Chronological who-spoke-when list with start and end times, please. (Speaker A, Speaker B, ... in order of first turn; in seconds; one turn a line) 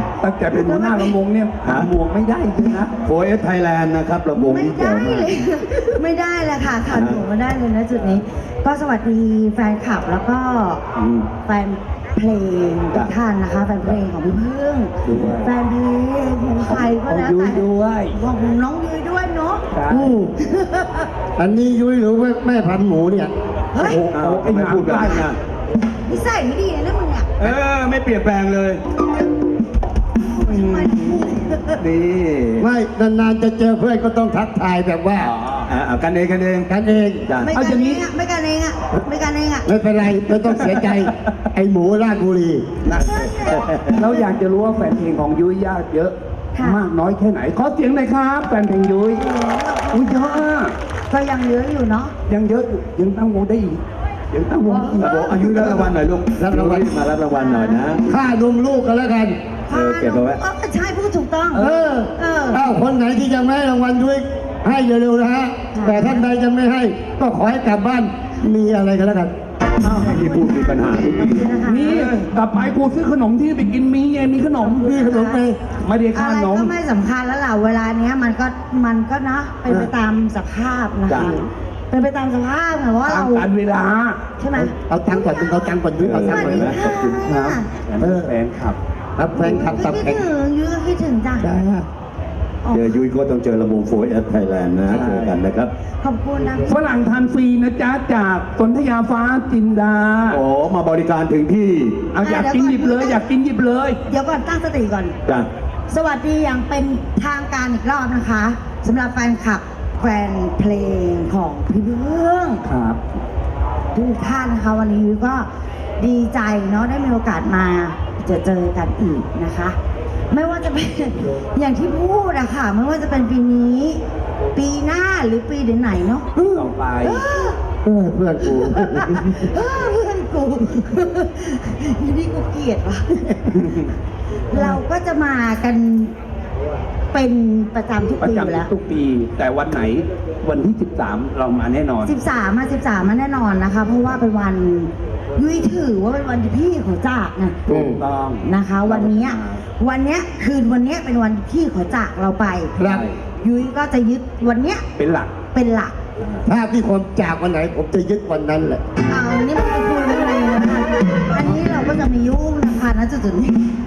Speaker A: 0.2-2.9
Speaker B: 0.5-1.1
Speaker C: 1.6-1.9
Speaker C: 3.0-5.3
Speaker B: 4.3-10.8
Speaker C: 6.9-7.2
Speaker C: 10.9-11.3
Speaker B: 11.4-19.6
Speaker A: 15.1-15.5
Speaker A: 16.6-18.2
Speaker A: 19.7-20.1
Speaker D: 19.9-20.3
Speaker B: 20.4-21.1
Speaker D: 21.4-23.3
Speaker B: 23.7-24.0
Speaker A: 23.8-25.2
Speaker C: 24.1-25.4
Speaker B: 25.0-25.2
Speaker B: 26.1-27.5
Speaker C: 27.4-28.8
Speaker B: 30.2-31.8
Speaker C: 30.5-31.0
Speaker C: 31.8-32.7
Speaker D: 32.6-35.3
Speaker A: 35.2-35.7
Speaker C: 35.7-36.7
Speaker D: 36.7-37.2
Speaker C: 37.2-37.5
Speaker B: 37.4-39.7
Speaker A: 37.5-38.0
Speaker D: 39.6-42.7
Speaker A: 42.8-49.2
Speaker C: 43.5-44.0
Speaker B: 46.5-46.9
Speaker B: 49.2-50.5
Speaker A: 49.9-50.7
Speaker B: 51.1-52.1
Speaker A: 52.3-53.8
Speaker A: 54.3-55.6
Speaker B: 54.7-55.5
Speaker C: 55.0-58.0
Speaker D: 56.4-56.9
Speaker B: 57.3-57.8
Speaker D: 58.1-59.4
Speaker B: 59.7-62.6
Speaker C: 59.7-60.4
Speaker A: 61.5-61.9
Speaker D: 61.6-69.3
Speaker B: 65.8-66.3
Speaker C: 69.8-71.6
Speaker B: 70.0-72.2
Speaker A: 71.7-75.1
Speaker B: 74.8-75.4
Speaker D: 74.8-75.6
Speaker A: 75.7-76.7
Speaker B: 76.1-83.5
Speaker C: 81.1-81.4
Speaker A: 83.0-84.2
Speaker B: 84.4-87.7
Speaker D: 84.5-86.8
Speaker C: 86.0-87.3
Speaker A: 87.2-88.8
Speaker D: 88.0-88.3
Speaker D: 89.2-90.2
Speaker B: 89.3-91.5
Speaker D: 91.4-91.8
Speaker B: 92.6-93.0
Speaker C: 92.7-95.7
Speaker A: 94.9-95.4
Speaker B: 96.0-96.8
Speaker A: 96.7-100.4
Speaker C: 100.3-102.1
Speaker A: 102.1-104.0
Speaker B: 102.2-103.2
Speaker B: 104.1-105.2
Speaker B: 105.9-112.6
Speaker A: 112.6-113.0
Speaker B: 113.9-115.5
Speaker B: 116.0-119.8
Speaker B: 120.3-124.0
Speaker B: 124.5-126.3
Speaker A: 126.4-127.2
Speaker B: 127.0-127.6
Speaker D: 127.8-129.5
Speaker B: 128.4-133.7
Speaker A: 133.5-133.9
Speaker B: 134.5-136.1
Speaker B: 137.1-138.7
Speaker A: 138.2-142.2
Speaker B: 142.0-147.7
Speaker A: 147.7-149.6
Speaker D: 147.7-148.0
Speaker B: 148.4-152.8
Speaker D: 152.8-153.1
Speaker A: 152.8-153.2
Speaker B: 153.3-154.8
Speaker A: 155.0-155.4
Speaker B: 155.5-156.0
Speaker D: 156.4-158.8
Speaker B: 159.1-163.6